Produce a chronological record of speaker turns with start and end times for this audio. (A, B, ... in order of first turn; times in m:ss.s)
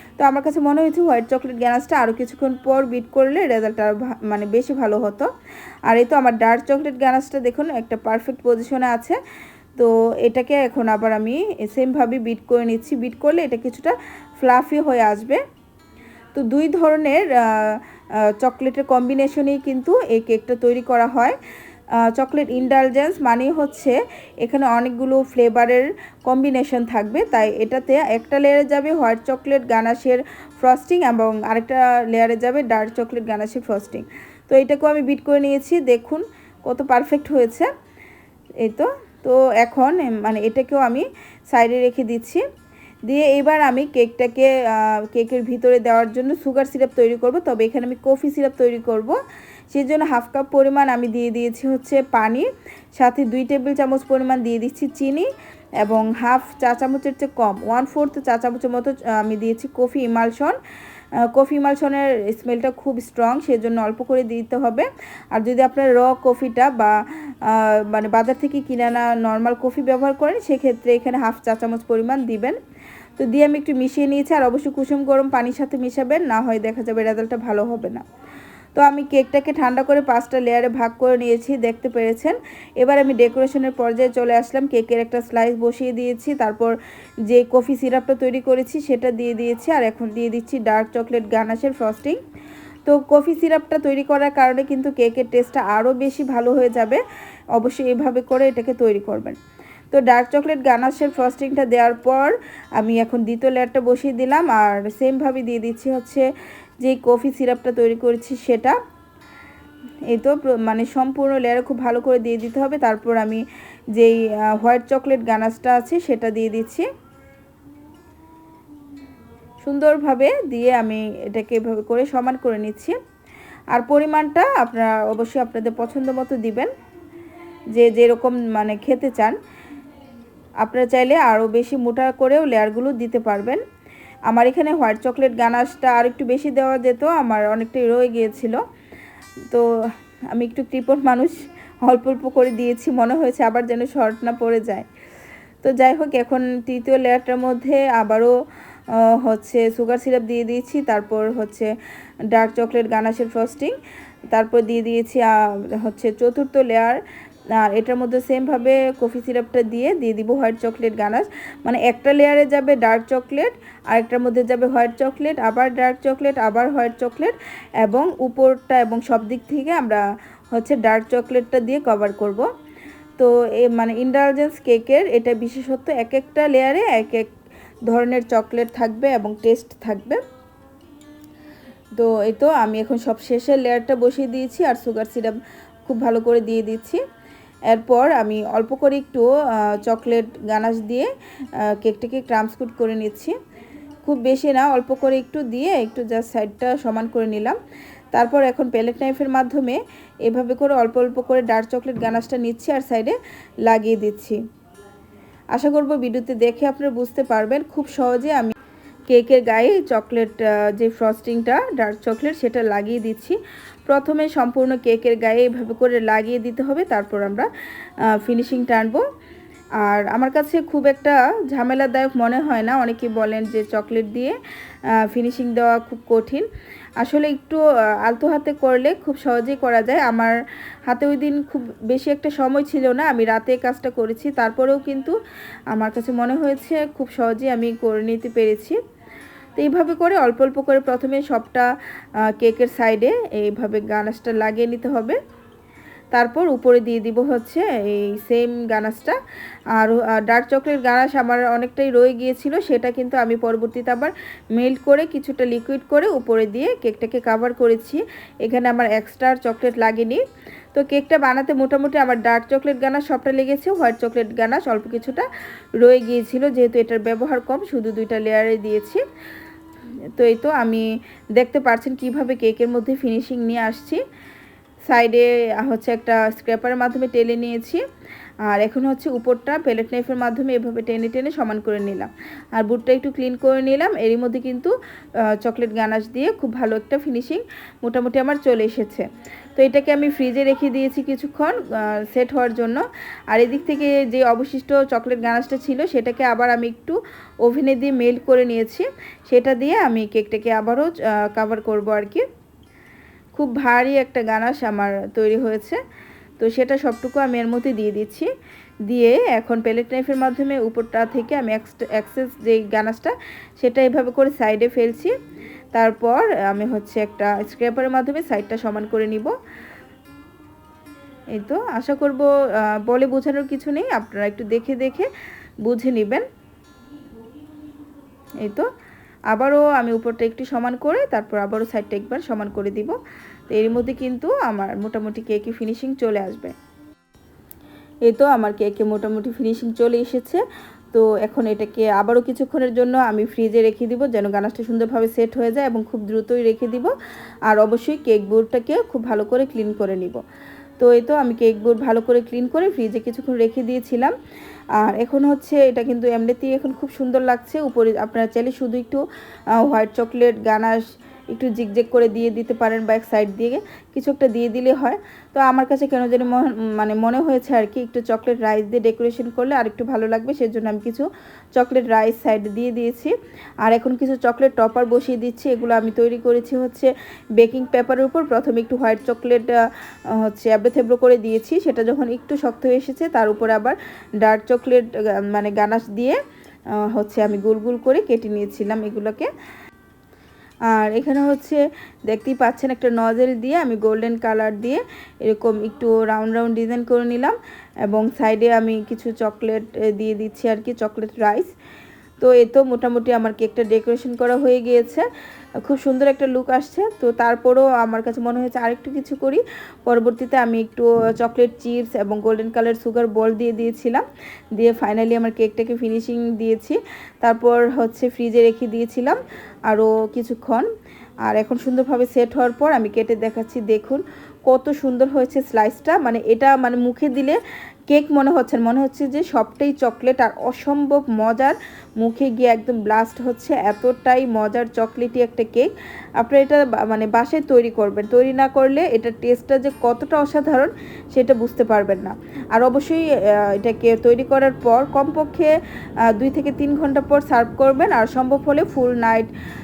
0:00.2-0:05.3 A
0:05.9-0:09.2 A
0:09.8-0:15.4 A
0:16.3-0:17.8 A
0:18.4-0:21.4 A
0:22.0-0:37.7 A
0:38.6-0:42.4 A
0:43.1-0:49.2 A
0:49.7-0:55.3 A
0:55.8-1:00.6 A
1:01.3-1:12.6 A
1:13.2-1:18.0 A
1:18.8-1:26.7 A
1:27.3-1:32.2 A
1:32.8-1:37.0 A
1:37.5-1:39.4 A
1:39.9-1:46.3 A
1:46.8-1:48.8 A
1:50.1-1:53.4 A
1:54.0-1:56.9 A
1:59.6-2:03.0 A
2:03.7-2:06.7 A
2:07.7-2:09.4 A
2:10.6-2:13.6 A
2:14.3-2:18.6 A
2:20.3-2:24.9 A
2:25.6-2:28.3 A
2:29.0-2:31.7 A
2:32.3-2:33.7 A
2:34.3-2:37.0 A
2:37.6-2:52.5 A
2:53.2-2:57.3 A
2:57.9-3:00.2 A
3:02.0-3:07.0 A
3:07.7-3:11.1 A
3:11.7-3:13.4 A
3:14.0-3:17.6 A
3:18.1-3:23.2 A
3:23.7-3:24.4 A
3:25.5-3:28.5 A
3:29.1-3:37.5 A
3:38.1-3:39.0 A
3:39.8-3:44.4 A
3:45.1-3:46.5 A
3:47.0-3:50.3 A
3:50.9-3:55.1 A
3:55.7-3:58.8 A
3:59.6-4:01.7 A
4:02.4-4:05.2 A
4:06.1-4:09.2 A
4:09.8-4:20.2 A
4:20.7-4:25.3 A
4:25.8-4:29.0 A
4:30.2-4:34.0 A
4:34.9-4:37.8 A
4:38.5-4:44.7 A
4:45.3-4:49.0 A
4:49.6-5:02.2 A
5:03.3-5:05.8 A
5:06.4-5:08.3 A
5:08.9-5:15.1 A
5:15.7-5:19.3 A
5:21.4-5:25.1 A
5:25.6-5:26.2 A
5:29.3-5:33.0 A
5:33.5-5:36.5 A
5:38.0-5:40.4 A
5:40.9-5:46.9 A
5:47.5-5:50.2 A
5:50.8-5:54.1 A
5:54.8-5:59.0 A
5:59.6-6:19.6 A
6:20.2-6:26.2 A
6:26.9-6:29.3 A
6:30.7-6:37.4 A
6:37.9-6:41.5 A
6:42.2-6:45.0 A
6:45.6-6:54.0 A
6:54.6-7:00.6 A
7:01.3-7:25.5 A
7:26.1-7:29.3 A